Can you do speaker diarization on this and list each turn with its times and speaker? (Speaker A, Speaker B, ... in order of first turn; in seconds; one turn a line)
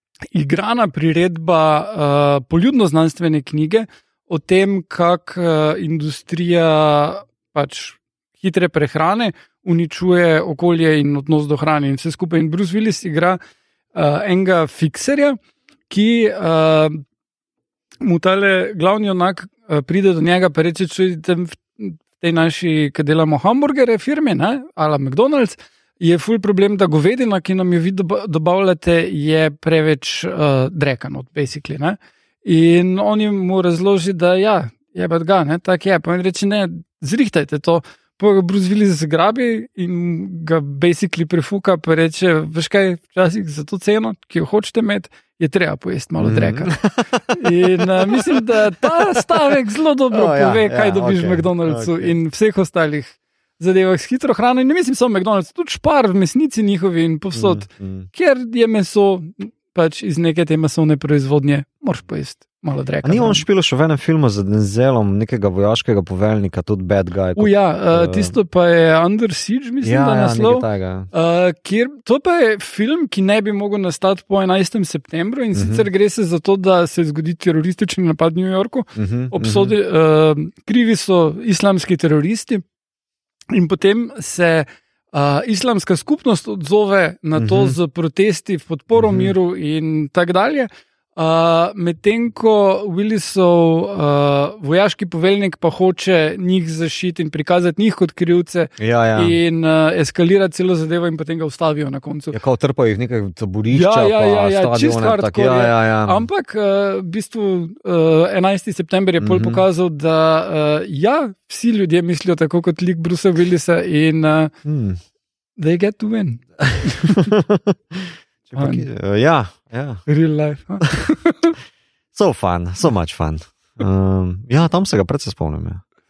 Speaker A: 0.3-13.4
Speaker A: 13.9-15.4
Speaker A: 15.9-17.0
Speaker A: 18.0-63.4
Speaker B: 46.2-49.5
Speaker B: 50.1-52.1
Speaker B: 57.3-58.1
Speaker B: 63.0-68.4
Speaker A: 67.3-82.6
Speaker B: 69.8-71.1
Speaker B: 75.5-75.9
Speaker B: 79.0-79.7
Speaker A: 83.5-102.4
Speaker B: 87.4-87.8
Speaker B: 88.9-89.3
Speaker B: 98.8-99.3
Speaker B: 102.3-106.3
Speaker A: 103.7-114.5
Speaker B: 109.2-109.6
Speaker B: 114.6-115.0
Speaker A: 115.6-117.3
Speaker B: 116.7-120.0
Speaker A: 118.5-118.8
Speaker A: 120.1-121.5
Speaker B: 122.1-125.8